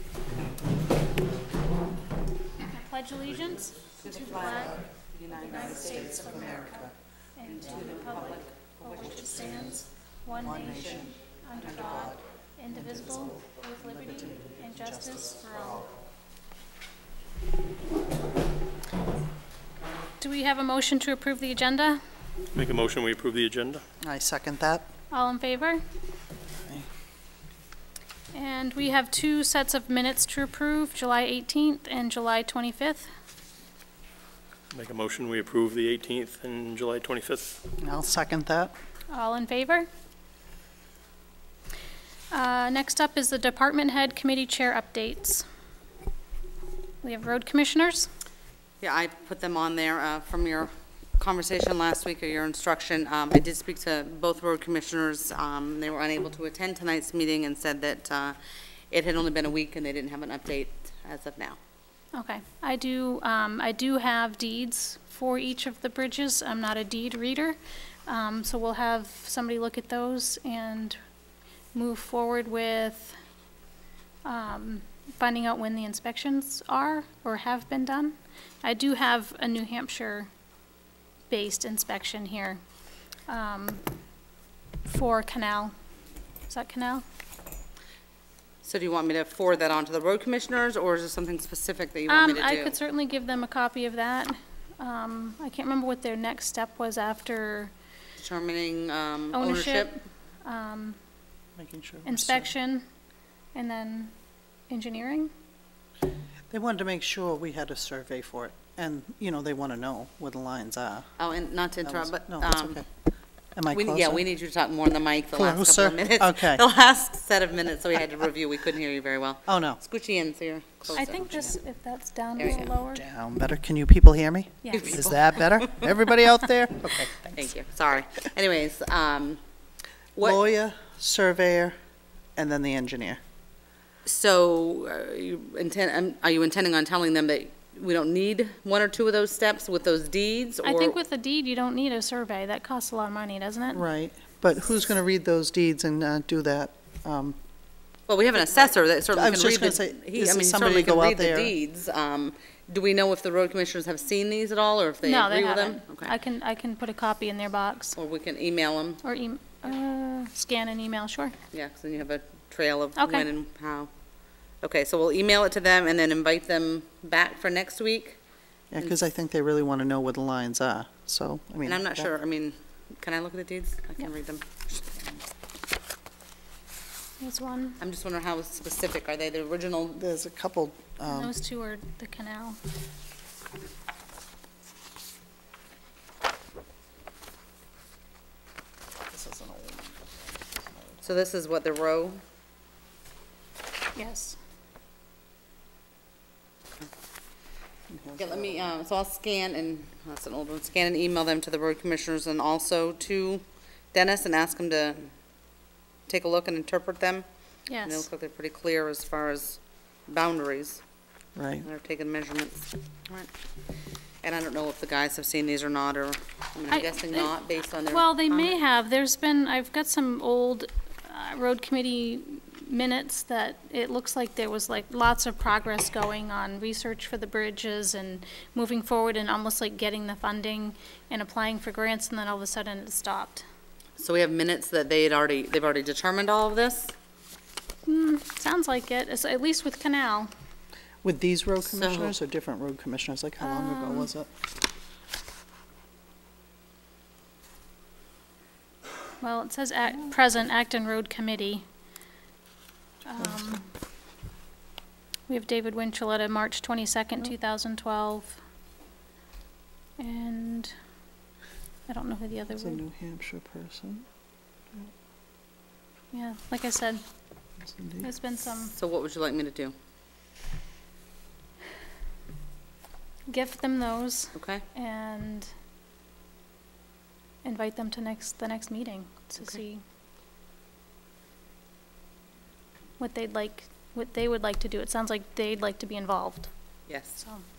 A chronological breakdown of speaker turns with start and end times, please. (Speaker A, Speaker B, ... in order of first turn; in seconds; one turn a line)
Speaker A: 2.6-4.8
Speaker B: 4.0-6.2
Speaker A: 5.4-15.8
Speaker C: 5.5-6.9
Speaker B: 7.5-9.2
Speaker C: 9.2-11.2
Speaker C: 11.7-12.2
Speaker C: 12.7-15.8
Speaker A: 20.2-22.0
Speaker D: 22.5-23.8
Speaker C: 24.0-24.9
Speaker A: 25.1-25.8
Speaker A: 28.3-33.1
Speaker D: 34.7-37.6
Speaker C: 37.8-38.7
Speaker A: 39.1-39.9
Speaker A: 42.3-45.4
Speaker A: 47.0-48.1
Speaker B: 48.8-58.4
Speaker B: 58.9-61.6
Speaker A: 62.1-71.0
Speaker A: 71.7-73.2
Speaker A: 74.2-80.3
Speaker A: 81.3-82.6
Speaker A: 83.3-83.8
Speaker A: 84.8-85.7
Speaker A: 86.5-87.0
Speaker B: 88.6-92.8
Speaker A: 92.1-97.7
Speaker B: 98.2-99.9
Speaker A: 99.3-101.0
Speaker C: 101.6-102.5
Speaker A: 102.0-102.8
Speaker A: 103.5-104.1
Speaker A: 104.7-105.3
Speaker C: 106.5-111.1
Speaker B: 111.2-112.8
Speaker C: 111.8-112.8
Speaker C: 113.5-114.3
Speaker B: 113.7-121.5
Speaker C: 115.3-116.6
Speaker C: 119.5-119.8
Speaker C: 120.8-121.5
Speaker A: 120.9-123.0
Speaker B: 122.4-122.7
Speaker C: 122.7-127.2
Speaker A: 124.6-125.0
Speaker B: 124.7-125.9
Speaker B: 126.8-129.4
Speaker B: 130.2-130.4
Speaker C: 130.2-131.7
Speaker C: 132.3-133.2
Speaker B: 134.1-141.0
Speaker A: 140.6-143.8
Speaker C: 143.7-147.3
Speaker B: 148.1-156.1
Speaker C: 149.1-151.5
Speaker A: 155.0-157.9
Speaker B: 157.9-159.0
Speaker A: 159.0-161.3
Speaker B: 161.5-163.9
Speaker A: 162.9-163.3
Speaker B: 164.6-168.2
Speaker C: 168.7-172.1
Speaker B: 171.6-175.2
Speaker A: 177.2-177.8
Speaker B: 177.8-180.0
Speaker C: 180.0-181.3
Speaker A: 181.1-182.6
Speaker C: 189.1-191.1
Speaker B: 191.0-192.2
Speaker A: 193.9-194.4
Speaker C: 197.9-198.7
Speaker B: 198.2-205.1
Speaker B: 206.1-207.2
Speaker A: 207.7-208.1
Speaker B: 207.8-210.8
Speaker C: 211.3-211.7
Speaker B: 211.6-213.3
Speaker B: 214.2-218.6
Speaker A: 216.7-217.3
Speaker A: 217.9-233.4
Speaker B: 234.0-236.9
Speaker A: 237.8-240.3
Speaker C: 241.0-244.3
Speaker B: 241.6-242.2
Speaker A: 243.4-244.1
Speaker A: 249.2-251.6
Speaker A: 253.0-253.7
Speaker A: 255.3-258.4
Speaker A: 260.0-260.7
Speaker A: 261.9-262.8
Speaker C: 262.6-264.1
Speaker A: 266.1-267.0
Speaker C: 267.6-268.1
Speaker A: 268.0-268.7
Speaker B: 268.7-269.7
Speaker A: 273.3-275.5
Speaker B: 274.3-274.6
Speaker A: 277.4-279.8
Speaker A: 283.0-286.5
Speaker B: 286.9-287.2
Speaker A: 287.2-287.4